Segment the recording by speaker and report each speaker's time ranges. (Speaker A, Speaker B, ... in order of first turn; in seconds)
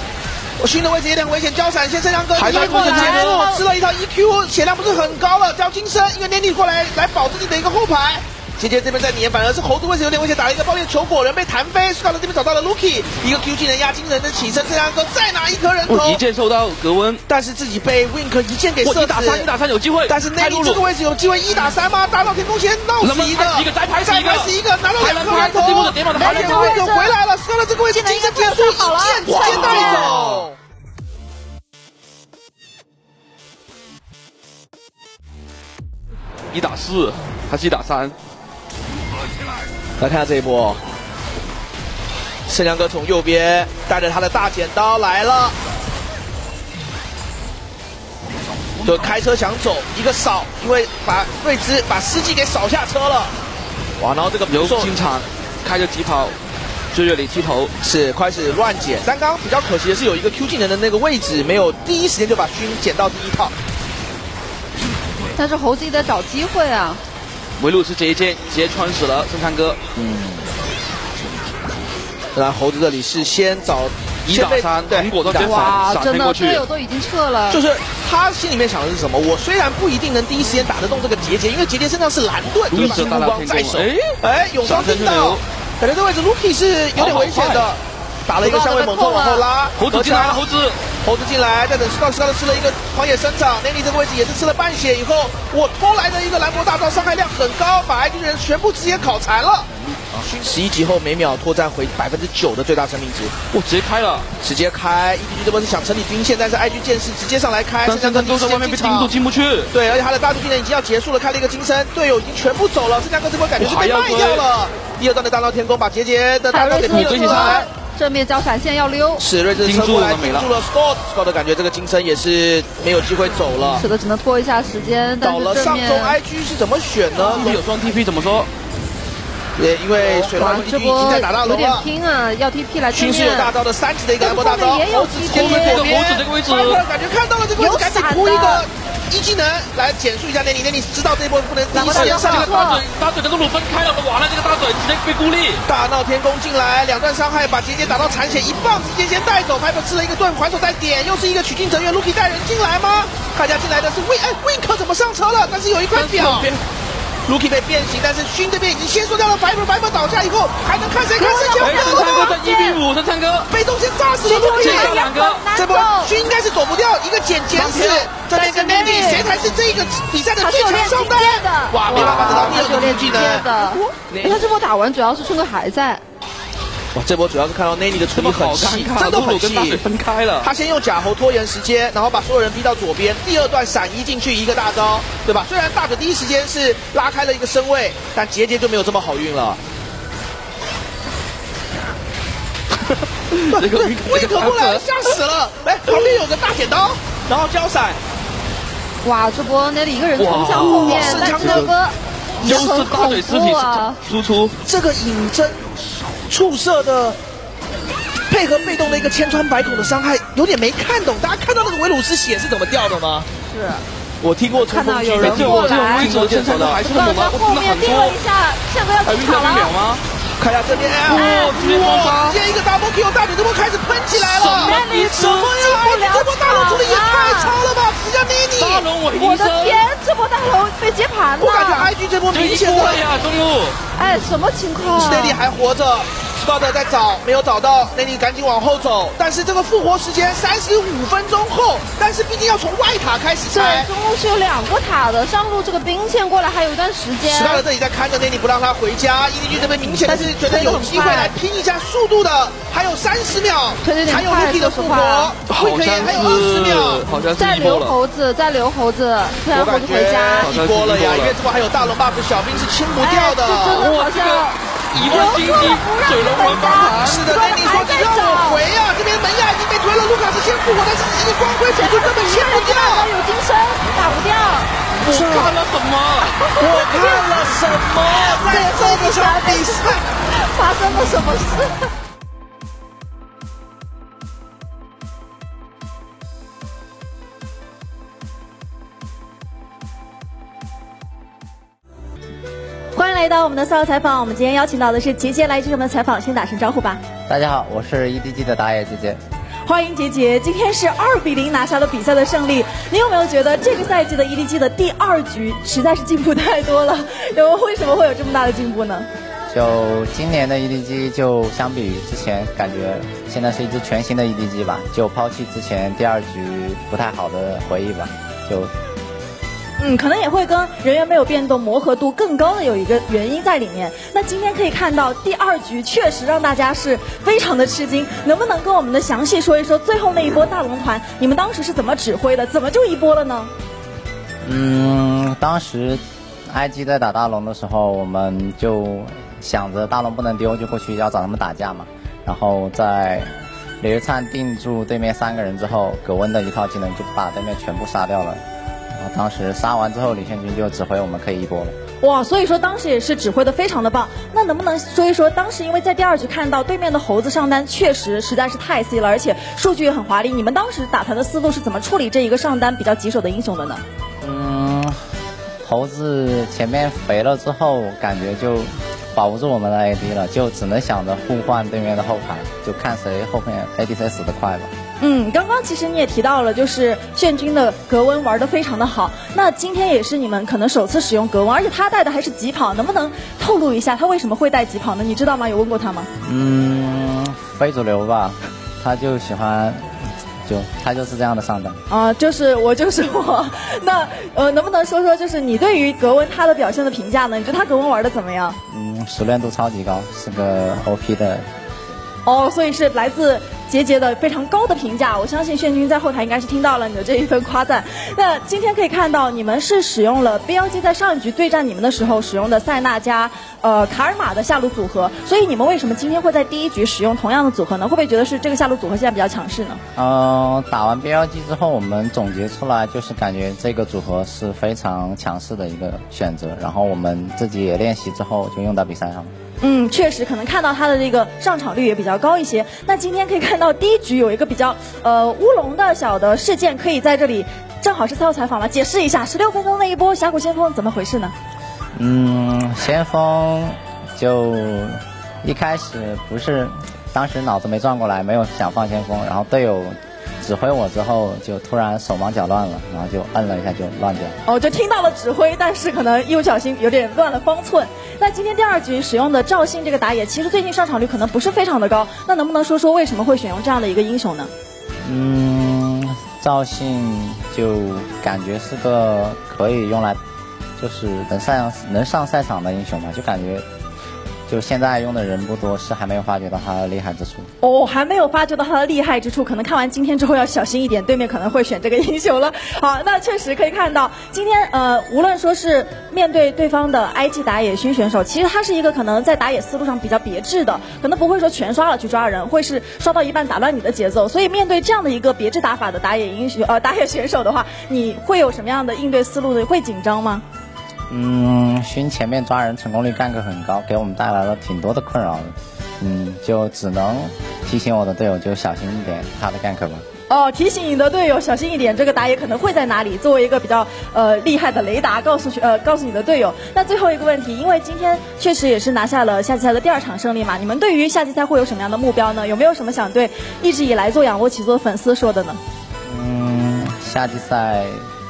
Speaker A: 0.6-16.2, 17.3-19.5, 20.1-30.6, 40.0-40.8, 42.5-45.6, 48.8-53.3, 54.0-55.0, 57.8-63.5, 70.0-70.4, 72.3-75.7, 77.5-90.4, 90.9-103.3, 104.4-109.1, 109.7-117.7, 119.2-123.8, 125.2-127.6, 129.6-131.9, 132.9-142.5, 145.7-156.5, 157.2-162.3, 163.5-165.0, 165.5-173.8, 176.9-179.8, 180.4-189.6, 193.5-198.0, 200.5-201.7, 204.6-205.7, 206.3-207.2, 208.3-213.3, 214.2-216.8, 220.4-228.8, 231.4-233.1, 234.9-243.9, 247.2-257.1, 259.5-263.9, 266.9-273.1, 275.1-275.5, 276.6-280.1
Speaker B: 2.3-3.5, 15.9-17.2, 18.8-20.8, 23.0-26.7, 29.2-30.4, 36.5-38.1, 54.5-56.4, 56.9-57.7, 67.6-69.8, 74.2-76.7, 82.7-85.4, 86.9-87.7, 89.8-90.8, 103.5-104.3, 107.8-109.7, 113.6-114.5, 116.9-117.5, 119.5-120.5, 127.3-128.5, 135.2-136.8, 142.0-145.6, 155.9-156.6, 161.6-163.5, 164.5-165.5, 167.6-168.1, 171.9-173.2, 174.1-174.5, 178.1-180.5, 192.9-194.9, 200.2-201.7, 202.4-204.6, 215.2-218.2, 219.0-220.0, 221.1-222.4, 224.1-225.6, 228.6-229.8, 232.3-233.8, 255.4-257.9, 260.4-261.4, 263.7-267.2, 275.0-276.4
Speaker C: 2.5-3.6, 26.1-27.1, 27.9-30.2, 65.3-67.0, 75.4-77.6, 88.4-89.5, 116.5-119.3, 123.8-126.2, 127.2-127.5, 130.1-133.5, 134.2-135.9, 137.6-138.7, 141.7-142.8, 161.3-162.8, 164.2-166.2, 168.3-169.3, 170.4-176.0, 199.0-204.0, 213.4-213.8, 214.5-216.1, 216.7-219.7, 221.1-221.8, 224.5-227.6, 228.8-231.9, 233.9-235.4, 243.5-247.6, 249.8-251.4, 253.8-255.4, 257.3-260.5, 263.0-268.6, 271.7-274.7, 276.2-277.3, 278.0-281.9
Speaker D: 161.9-162.2, 292.9-297.0, 299.7-309.1, 319.8-333.5, 352.0-363.8, 375.0-386.1, 391.9-398.6, 402.2-419.8, 429.6-441.3, 454.4-464.5, 477.6-500.4, 510.3-525.6
Speaker E: 297.3-299.2, 309.5-318.7, 334.4-348.4, 348.9-351.8, 364.2-365.1, 365.6-374.7, 386.2-391.8, 398.7-401.5, 419.9-429.3, 441.9-454.4, 465.0-470.2, 470.8-473.6, 474.5-477.5, 501.1-510.1, 526.1-528.1